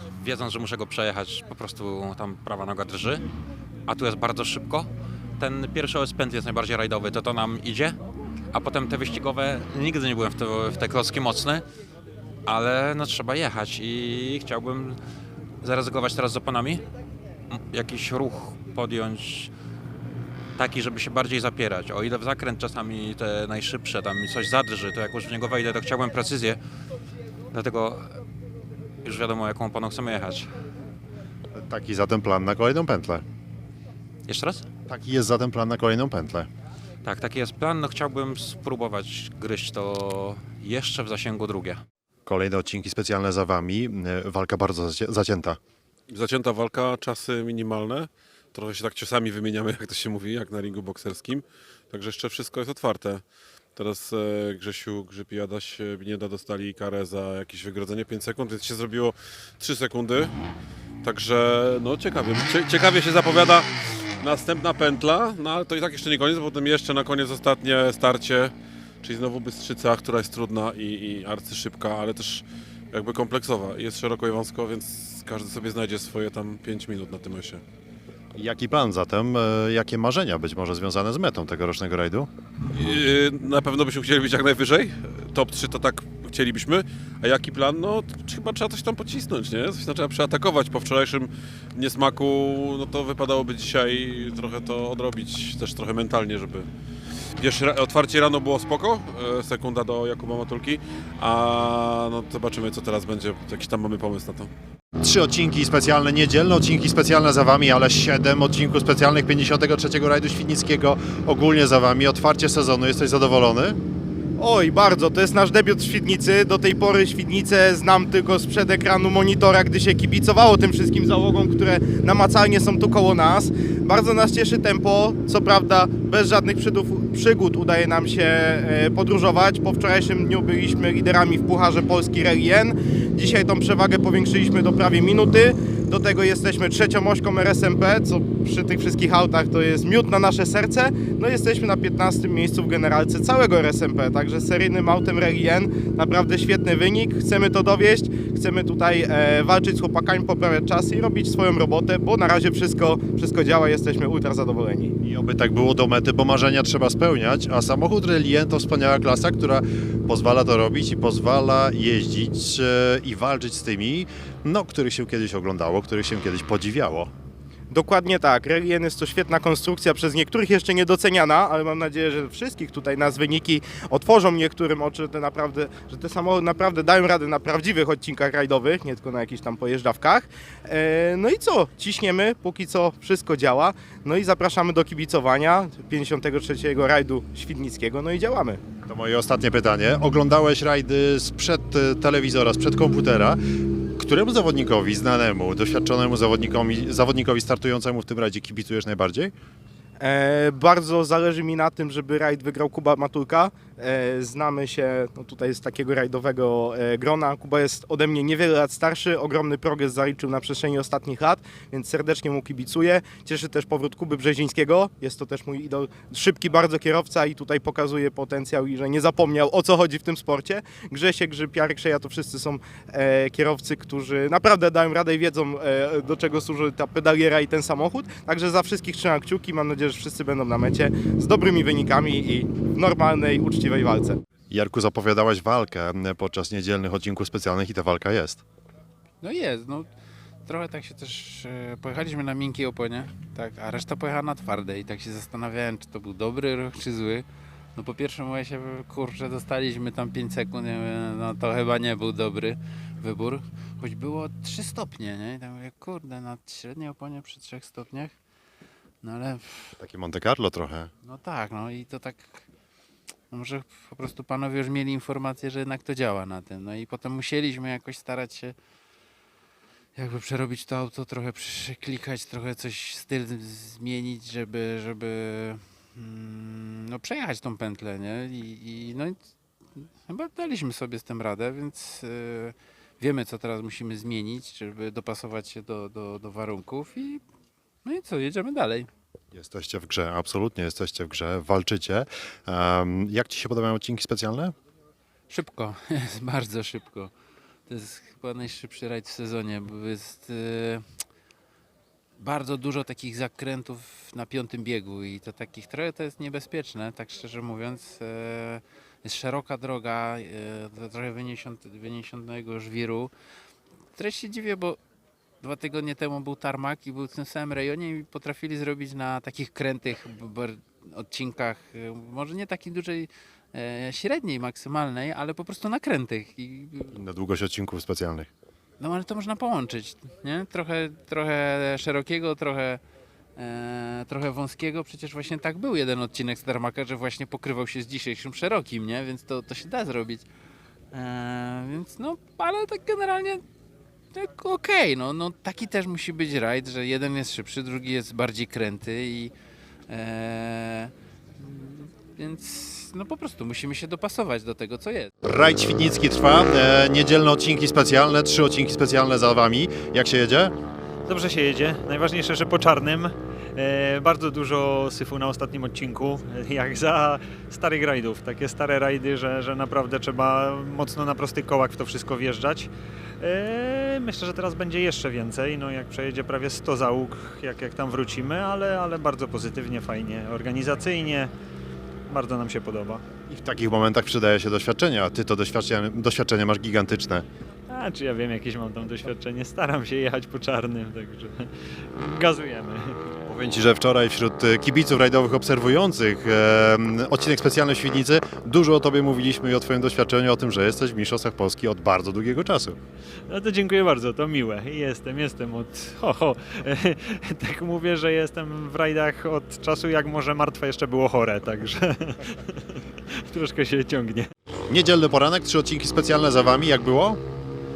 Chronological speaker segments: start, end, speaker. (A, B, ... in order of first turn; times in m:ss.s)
0:00.2-0:03.2 A
0:03.9-0:08.0 A
0:08.5-0:11.6 A
0:12.5-0:15.0 A
0:15.6-0:16.8 A
0:17.5-0:19.5 A
0:20.6-0:26.6 A
0:27.5-0:28.2 A
0:29.0-0:30.5 A
0:31.5-0:33.2 B
0:34.3-0:34.6 A
0:34.9-0:36.5 B
0:37.0-0:41.8 A
0:42.3-0:45.6 B
0:46.1-0:53.2 C
0:53.8-1:00.3 C
1:01.0-1:03.7 C
1:04.2-1:17.6 C
1:18.4-1:22.3 B
1:22.7-1:36.7 C
1:37.4-1:44.5 C
1:45.0-1:53.8 B
1:54.4-2:34.9 D
2:35.0-2:47.1 B
2:47.7-3:08.6 D
3:08.9-3:13.4 B
3:14.0-3:19.3 B
3:20.0-3:54.2 D
3:54.5-3:58.4 B
3:59.2-3:59.9 E
4:00.5-4:07.2 E
4:07.8-4:18.1 E
4:19.0-4:19.8 E
4:19.8-4:20.9 B
4:21.0-4:22.4 E
4:23.3-4:28.6 E
4:30.0-4:39.2 E
4:40.0-4:47.2 E
4:47.8-4:48.9 E
4:49.3-4:54.5 B
4:55.3-4:57.1 E
4:57.7-5:00.9 E
5:02.2-5:13.1 E
5:14.0-5:14.8 E
5:15.4-5:27.0 E
5:26.9-5:28.3 B
5:28.8-5:32.8 E
5:33.4-5:40.3 E
5:40.9-5:43.4 E
5:44.1-5:49.3 E
5:49.9-5:55.1 E
5:55.2-6:00.6 B
6:01.1-6:12.7 F
6:13.2-6:21.3 F
6:22.1-6:23.0 F
6:23.3-6:27.3 B
6:27.7-6:33.0 F
6:33.3-6:42.8 B
6:43.3-6:52.4 F
6:53.3-6:54.3 F
6:54.7-6:57.2 B